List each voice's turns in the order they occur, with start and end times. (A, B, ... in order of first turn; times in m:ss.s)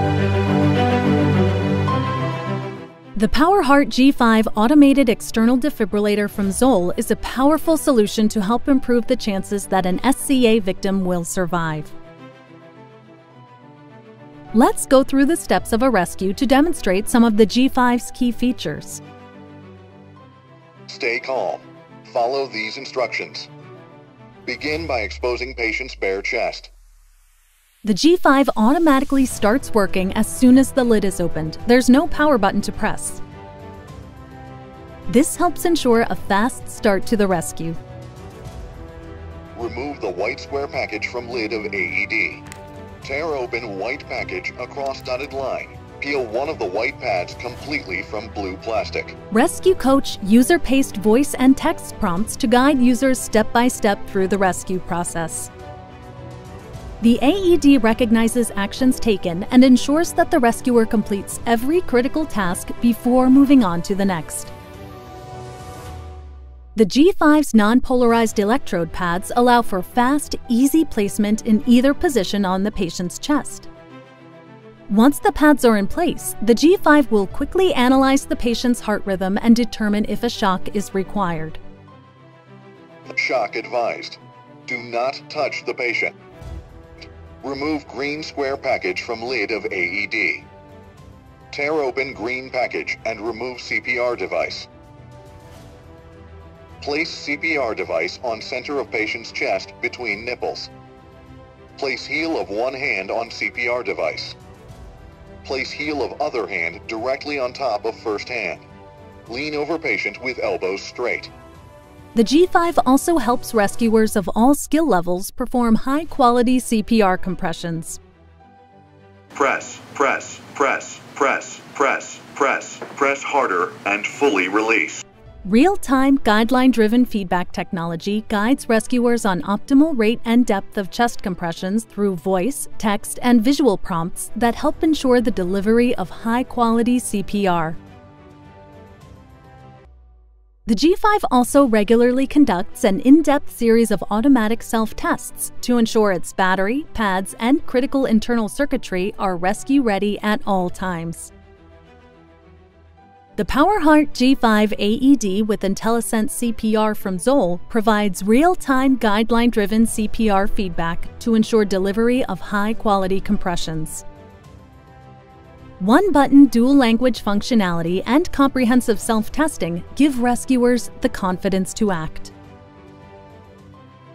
0:03.1-0:11.9 A
0:14.5-0:19.0 A
0:20.9-0:23.5 B
0:24.4-0:26.7 B
0:27.8-0:33.2 A
0:35.1-0:37.8 A
0:39.5-0:42.4 B
0:43.0-0:49.2 B
0:49.3-0:55.5 A
0:57.0-1:04.5 A
1:06.7-1:13.7 A
1:14.9-1:21.6 A
1:23.1-1:26.1 B
1:27.4-1:30.5 B
1:31.5-1:34.7 B
1:36.8-1:40.7 B
1:41.8-1:44.4 B
1:45.4-1:48.7 B
1:49.3-1:51.3 B
1:52.1-1:58.0 A
1:59.3-2:05.0 B
2:05.4-2:17.8 A
2:20.6-2:31.3 A
2:33.4-2:44.0 A
2:45.8-2:52.3 A